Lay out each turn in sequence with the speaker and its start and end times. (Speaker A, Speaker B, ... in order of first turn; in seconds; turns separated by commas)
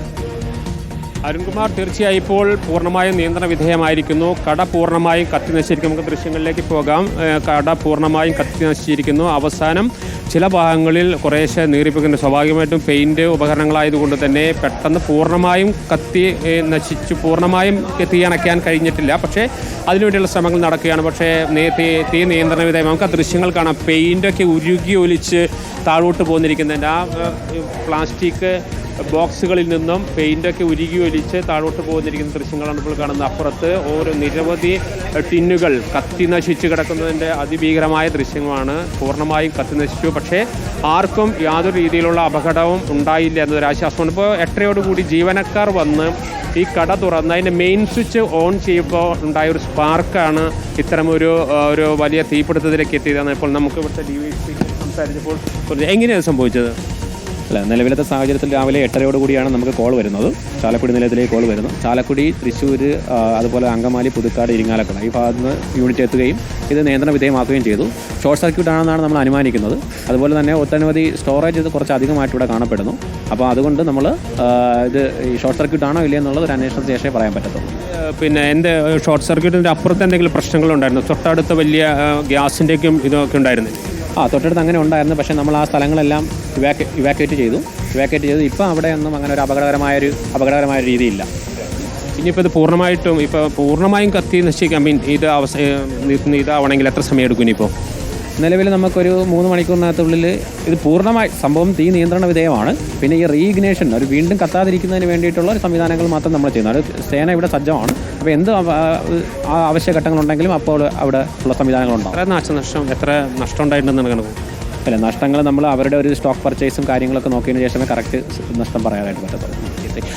Speaker A: 1.2-56.8, Speaker B: 57.5-77.7, Speaker A: 77.9-83.8, Speaker B: 84.2-91.2, Speaker A: 92.2-97.7, Speaker B: 98.4-112.2, Speaker A: 112.1-114.4, Speaker B: 114.8-120.0